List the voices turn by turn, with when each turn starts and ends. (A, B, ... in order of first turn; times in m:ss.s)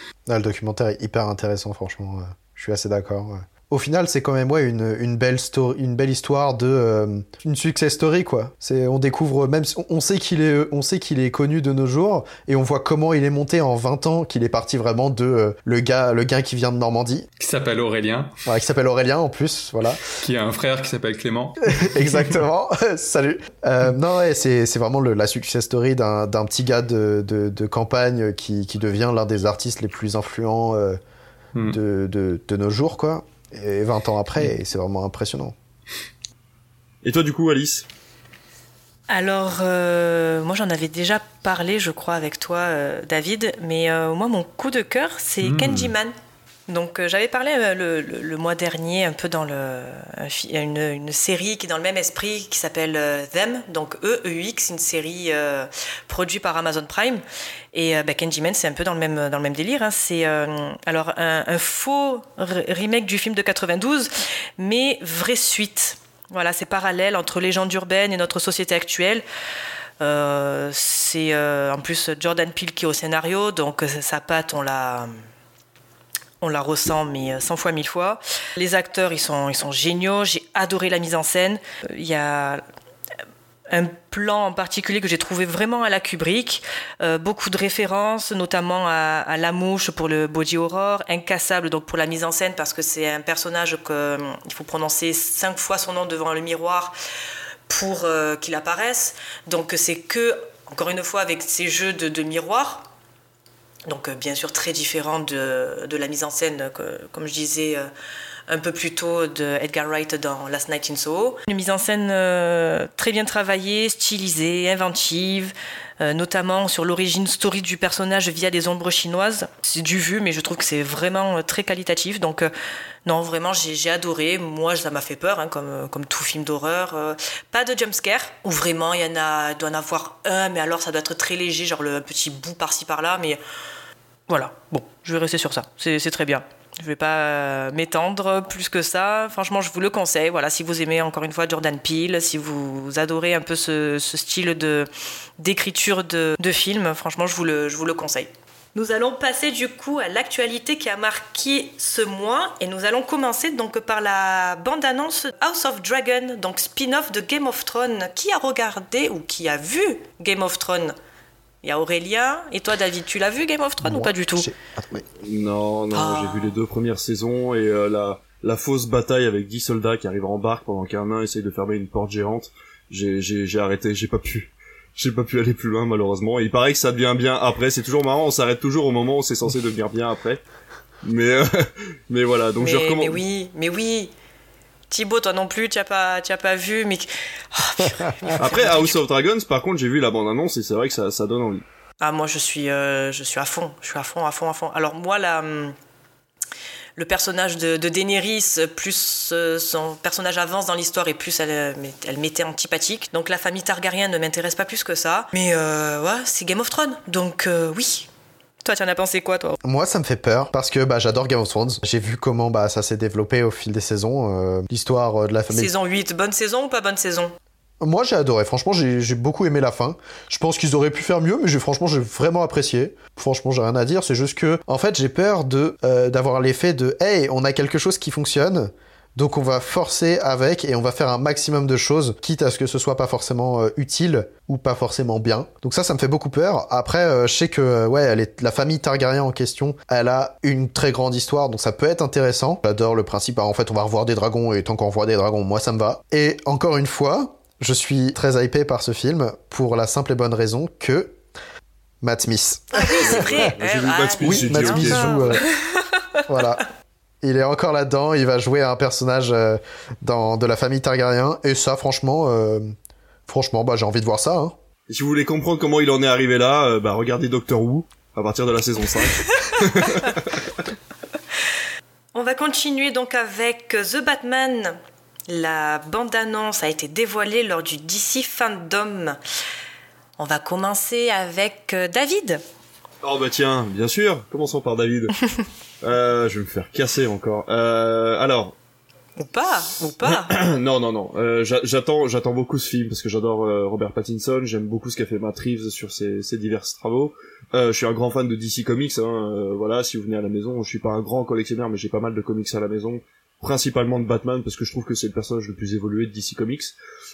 0:00.3-0:17.3 A
0:17.4-0:18.3 B
0:18.4-0:20.0 A
0:20.1-0:22.2 B
0:21.7-0:31.0 A
0:31.7-0:35.5 A
0:37.0-0:37.8 C
0:39.1-0:46.1 D
0:45.4-0:45.9 B
0:46.7-0:57.2 D
0:57.7-1:09.2 D
1:10.0-1:15.1 D
1:16.4-1:22.6 D
1:23.7-1:36.9 D
1:37.7-1:42.9 D
1:43.8-1:47.9 D
1:48.5-2:02.5 D
2:03.0-2:13.4 D
2:14.3-2:40.9 D
2:41.6-2:44.5 D
2:43.8-2:45.0 A
2:45.2-3:00.4 C
2:45.9-2:46.5 D
3:01.0-3:03.2 C
3:02.6-3:04.1 D
3:04.9-3:09.0 D
3:08.0-3:08.3 A
3:08.4-3:11.6 C
3:12.0-3:15.7 D
3:17.0-3:28.1 D
3:28.6-3:29.6 D
3:29.6-3:35.7 A
3:35.5-3:37.3 D
3:37.8-4:11.2 A
4:12.0-4:13.5 A
4:12.7-4:16.2 D
4:13.0-4:15.4 C
4:14.2-4:15.4 A
4:16.3-4:16.6 A
4:17.2-4:22.7 A
4:23.3-4:24.5 A
4:24.9-4:30.5 C
4:32.1-4:34.8 D
4:35.3-4:39.2 D
4:40.2-4:42.4 D
4:43.0-4:45.2 C
4:45.8-4:48.5 C
4:49.2-4:50.3 D
4:50.0-5:06.7 C